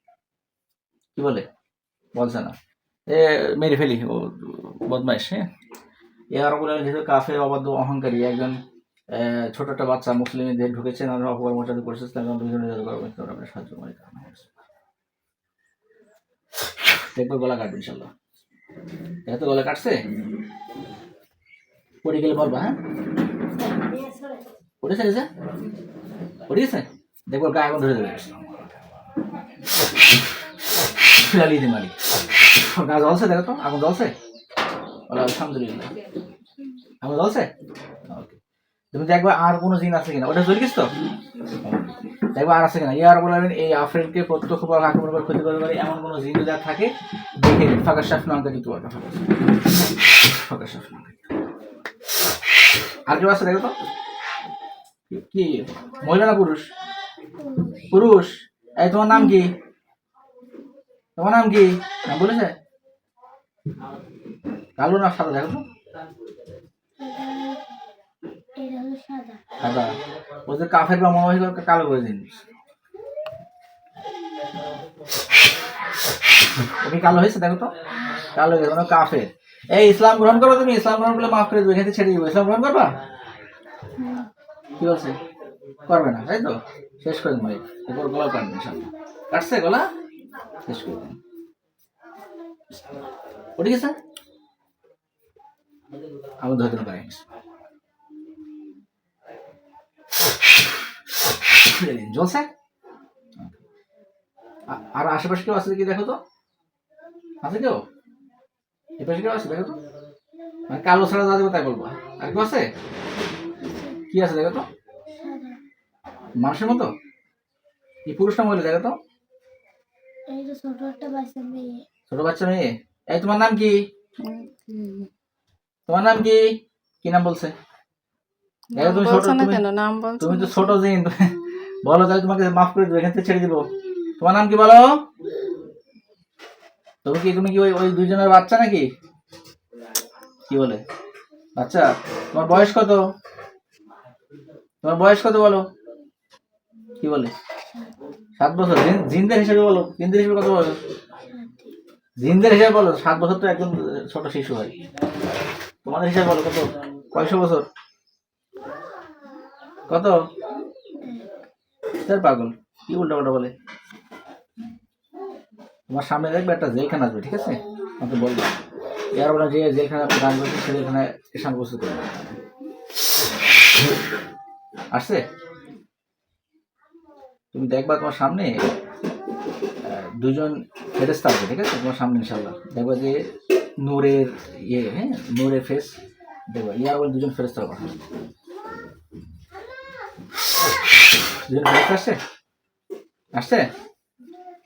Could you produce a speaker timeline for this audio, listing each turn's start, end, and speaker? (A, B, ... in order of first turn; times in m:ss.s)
0:01.2-0:01.4 A
0:02.2-0:02.6 A
0:03.1-0:05.4 A
0:06.3-0:08.6 A
0:09.1-0:14.5 A
0:17.1-0:18.1 A
0:19.3-0:20.0 A
0:22.0-0:22.8 A
0:24.8-0:25.3 A
0:26.5-0:28.8 A
0:30.9-0:34.1 A
0:35.1-0:35.9 A
0:37.0-0:37.5 A
0:38.1-0:38.4 A
0:38.9-0:40.9 A
0:41.6-0:49.3 A
0:50.1-0:51.3 A
0:53.1-0:53.8 A
0:55.1-0:56.7 A
0:57.4-0:57.9 B
0:57.9-0:59.5 A
1:01.2-1:02.6 A
1:04.8-1:05.7 A
1:07.0-1:07.8 B
1:08.6-1:09.6 B
1:09.6-1:12.4 A
1:16.6-1:17.7 A
1:18.2-1:22.9 A
1:24.0-1:24.3 B
1:24.8-1:25.2 A
1:25.9-1:29.9 A
1:30.7-1:31.2 A
1:33.6-1:34.0 A
1:36.4-1:37.2 A
1:41.3-1:42.5 A
1:44.7-1:46.2 A
1:47.4-1:47.8 A
1:49.0-1:49.8 A
1:50.7-1:52.7 A
1:53.6-1:54.0 B
1:54.1-1:54.7 A
1:55.2-1:55.6 B
1:56.4-1:56.9 A
1:58.1-1:59.0 A
2:00.3-2:01.8 B
2:02.1-2:03.8 A
2:04.3-2:05.1 C
2:05.9-2:06.4 A
2:07.0-2:07.5 A
2:08.8-2:09.6 A
2:08.8-2:10.8 C
2:10.2-2:13.6 A
2:14.2-2:14.9 A
2:17.0-2:18.9 A
2:20.5-2:20.8 A
2:21.6-2:23.0 A
2:24.8-2:25.6 A
2:27.0-2:27.3 A
2:27.7-2:28.0 B
2:28.4-2:30.8 A
2:31.3-2:31.8 B
2:32.2-2:34.7 A
2:35.8-2:37.7 A
2:39.9-2:40.2 A
2:40.9-2:41.3 B
2:42.0-2:43.5 A
2:45.9-2:48.5 A
2:49.1-2:52.4 A
2:54.9-2:55.2 A
2:57.5-2:58.6 A
2:59.8-3:03.2 A
3:03.8-3:06.0 A
3:06.5-3:08.0 A
3:11.5-3:12.2 A
3:13.3-3:13.7 A